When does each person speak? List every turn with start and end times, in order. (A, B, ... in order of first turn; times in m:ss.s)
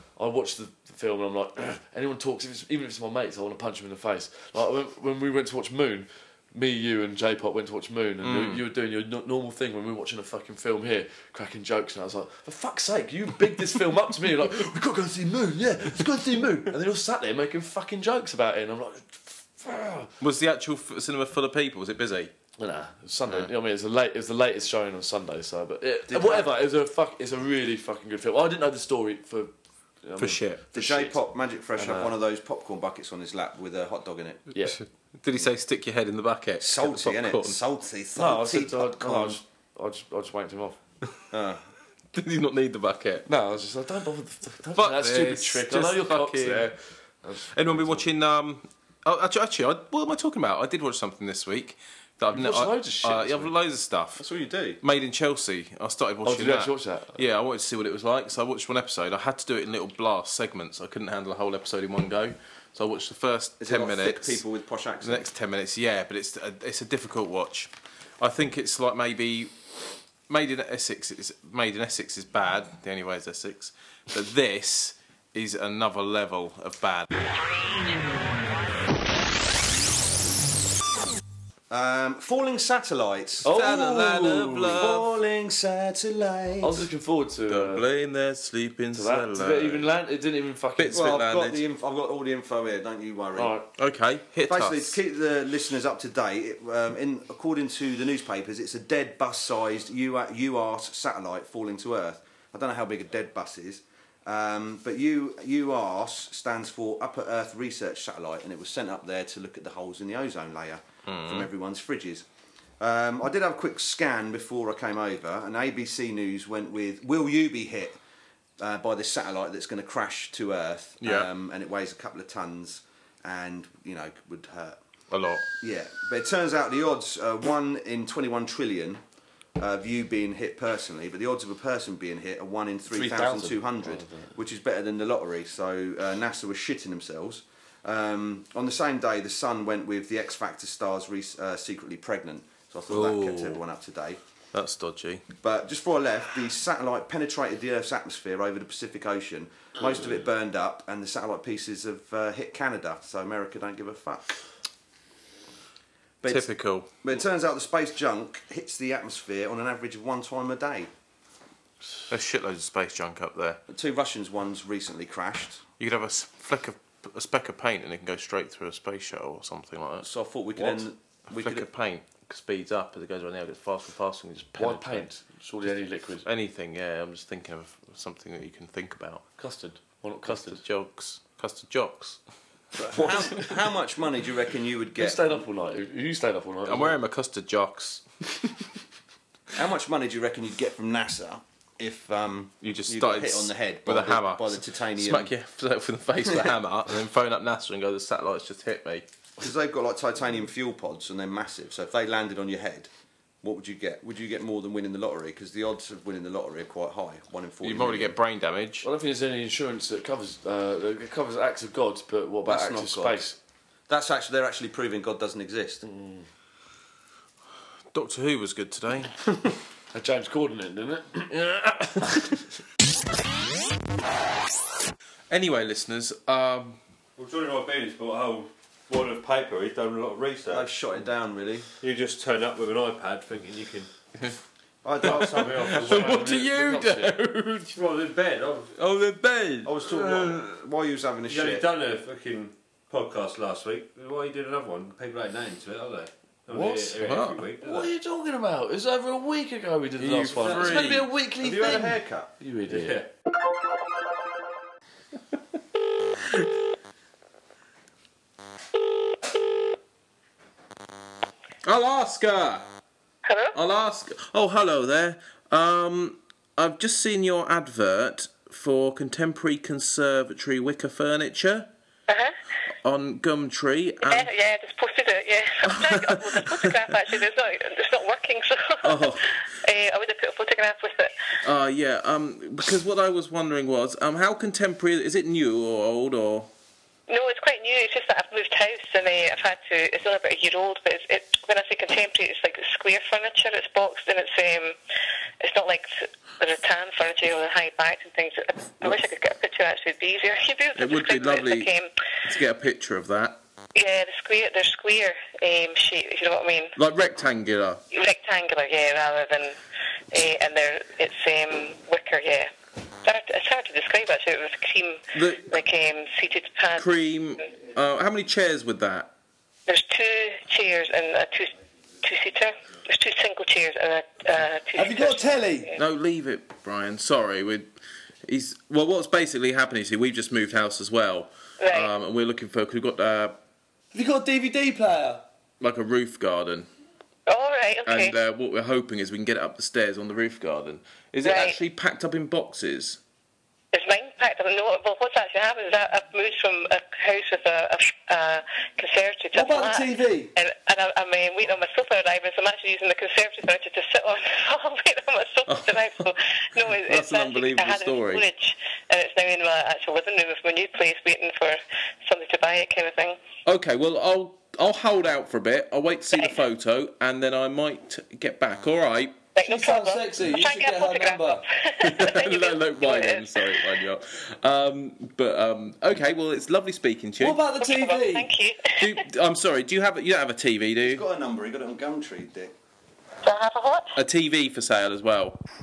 0:00.2-0:20.1 A
0:08.2-0:08.6 B
0:20.2-0:22.3 B
0:22.6-0:29.5 A
0:26.1-0:26.5 C
0:30.0-0:31.2 A
0:30.2-0:30.6 B
0:30.7-0:34.4 C
0:31.8-0:32.2 A
0:34.8-0:37.6 B
0:36.6-0:39.4 C
0:38.2-0:40.8 A
0:41.3-0:41.6 C
0:42.1-0:43.3 B
0:43.3-0:48.1 A
0:44.8-0:46.7 B
0:47.5-0:54.2 B
0:52.3-0:53.5 A
0:54.2-0:54.8 C
0:54.8-1:04.4 B
0:56.2-0:57.2 A
1:03.6-1:05.3 C
1:05.0-1:09.5 B
1:10.3-1:17.1 B
1:21.7-1:23.5 C
1:23.4-1:24.7 A
1:23.4-1:25.1 B
1:24.6-1:26.9 C
1:26.6-1:27.8 A
1:27.5-1:29.9 B
1:29.0-1:31.1 A
1:30.8-1:31.6 B
1:30.9-1:33.6 C
1:33.4-1:33.7 A
1:33.8-1:35.0 B
1:34.5-1:52.3 C
1:51.1-1:51.5 B
1:52.8-1:58.0 C
1:58.6-2:04.8 C
2:01.0-2:01.3 B
2:05.1-2:05.4 B
2:05.6-2:09.0 C
2:09.6-2:24.2 C
2:12.9-2:14.4 A
2:22.9-2:23.6 B
2:24.5-2:25.2 B
2:25.4-2:34.3 C
2:36.2-2:36.5 C
2:36.2-2:36.9 B
2:37.0-2:40.9 C
2:42.1-2:43.6 B
2:43.7-2:45.6 C
2:45.8-2:55.1 B
2:50.0-2:51.7 C
2:54.6-2:56.3 A
2:56.2-2:59.3 B
2:59.4-3:00.6 A
3:00.2-3:02.2 B
3:02.8-3:03.5 A
3:02.8-3:05.4 C
3:05.0-3:07.0 A
3:06.6-3:08.6 B
3:09.6-3:15.3 C
3:12.6-3:19.1 B
3:16.2-3:16.6 C
3:19.4-3:22.9 C
3:23.4-3:28.2 C
3:27.6-3:28.9 B
3:28.8-3:33.4 A
3:32.5-3:33.2 C
3:33.9-3:35.8 C
3:35.8-3:36.3 A
3:37.9-3:39.2 B
3:39.9-3:42.5 A
3:45.3-3:46.8 B
3:47.2-3:50.7 D
3:50.5-3:51.7 C
3:51.8-3:53.9 D
3:54.8-3:56.3 C
3:55.0-3:57.8 B
3:55.0-3:56.3 D
3:55.7-3:57.1 A
3:57.7-3:58.8 D
3:58.8-3:59.8 B
3:59.6-4:01.6 C
4:00.0-4:00.4 D
4:01.3-4:07.9 D
4:06.5-4:07.0 A
4:07.0-4:07.4 B
4:07.6-4:13.0 A
4:10.0-4:11.1 B
4:10.3-4:11.0 D
4:11.4-4:12.3 C
4:12.7-4:13.1 D
4:21.6-4:22.7 B
4:23.3-4:23.6 E
4:23.5-4:31.7 B
4:32.1-4:32.4 E
4:32.8-4:34.3 B
4:34.0-4:41.2 E
4:35.6-4:36.8 B
4:38.8-4:39.4 B
4:41.4-4:46.5 B
4:47.1-4:54.8 E
4:55.4-5:01.9 E
5:00.8-5:01.7 B
5:02.2-5:03.4 B
5:03.8-5:06.8 E
5:06.8-5:07.8 B
5:07.9-5:09.6 E
5:10.1-5:12.5 E
5:13.0-5:16.8 E
5:15.1-5:15.5 B
5:16.8-5:19.1 B
5:19.7-5:25.8 E
5:24.8-5:25.7 A
5:25.8-5:27.7 B
5:28.3-5:33.4 B
5:31.6-5:31.9 E
5:33.9-5:35.2 A
5:35.6-5:36.7 B
5:37.3-5:38.2 E
5:37.9-5:43.0 B
5:41.2-5:41.6 E
5:43.7-6:03.2 E
5:49.3-5:50.3 A
5:55.5-5:56.1 B
5:56.6-5:58.2 B
6:03.4-6:09.2 B
6:09.4-6:13.7 E
6:09.4-6:11.4 A
6:11.8-6:17.4 B
6:17.2-6:18.3 A
6:17.6-6:19.0 E
6:18.8-6:21.0 B
6:20.8-6:22.6 C
6:23.2-6:24.0 E
6:24.0-6:25.4 B